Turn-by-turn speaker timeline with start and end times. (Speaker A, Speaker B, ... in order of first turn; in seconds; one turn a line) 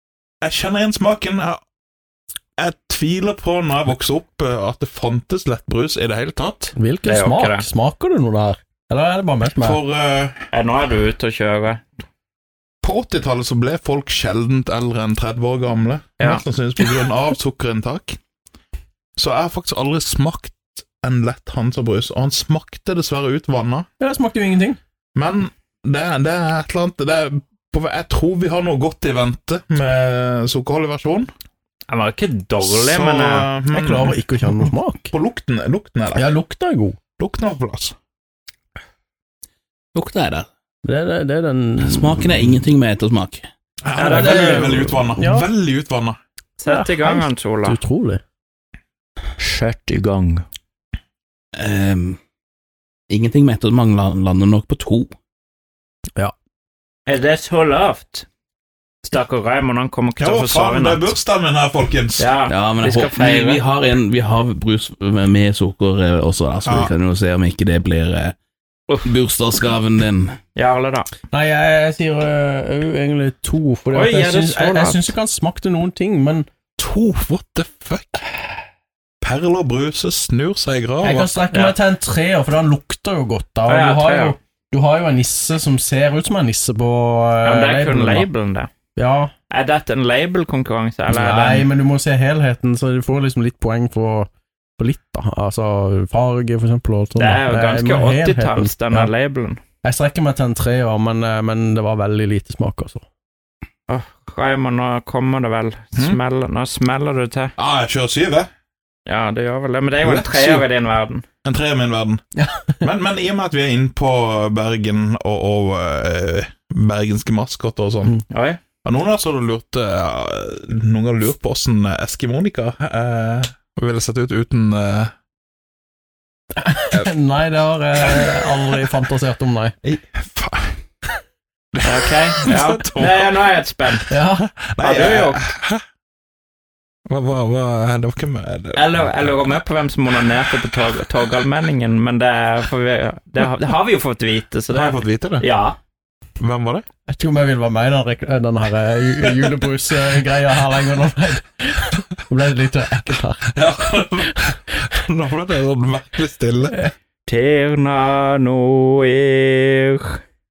Speaker A: 0.4-1.6
Speaker A: 2.6-6.7
Speaker B: 6.8-9.8
Speaker C: 7.0-7.7
Speaker A: 9.6-10.5
Speaker C: 10.5-11.8
Speaker A: 12.8-18.2
Speaker A: 19.2-23.9
Speaker B: 24.0-24.8
Speaker A: 25.1-31.3
Speaker C: 31.9-33.5
Speaker A: 32.6-36.3
Speaker B: 33.7-35.1
Speaker B: 36.1-37.0
Speaker A: 37.2-37.9
Speaker D: 39.9-40.5
Speaker B: 40.8-42.3
Speaker D: 41.8-43.5
Speaker A: 43.8-46.2
Speaker C: 44.0-44.7
Speaker B: 44.1-45.5
Speaker C: 46.6-47.8
Speaker B: 46.6-48.2
Speaker C: 49.4-50.4
Speaker D: 51.5-52.2
Speaker D: 53.1-55.1
Speaker C: 57.1-58.2
Speaker C: 59.0-61.1
Speaker A: 60.2-62.3
Speaker C: 62.2-63.6
Speaker D: 62.5-68.3
Speaker A: 66.6-66.9
Speaker D: 69.0-70.4
Speaker C: 70.5-71.1
Speaker B: 71.3-76.5
Speaker C: 73.9-75.1
Speaker A: 76.8-78.2
Speaker A: 79.2-81.3
Speaker B: 81.0-88.3
Speaker C: 83.7-84.3
Speaker C: 87.4-88.7
Speaker B: 89.0-89.3
Speaker C: 89.5-91.7
Speaker B: 91.1-99.1
Speaker C: 97.2-99.6
Speaker B: 99.8-103.0
Speaker C: 103.9-107.5
Speaker A: 107.6-108.5
Speaker C: 109.1-111.2
Speaker A: 110.0-110.7
Speaker A: 111.4-112.2
Speaker A: 112.8-118.2
Speaker C: 118.3-118.6
Speaker A: 118.8-125.1
Speaker B: 126.5-129.7
Speaker A: 129.8-130.7
Speaker A: 131.7-133.3
Speaker C: 131.8-134.1
Speaker B: 134.1-134.5
Speaker A: 134.7-135.8
Speaker C: 134.8-135.4
Speaker A: 137.1-139.4
Speaker C: 138.7-145.8
Speaker A: 144.7-145.5
Speaker A: 146.4-146.8
Speaker B: 147.1-153.5
Speaker A: 153.5-156.9
Speaker C: 157.2-160.2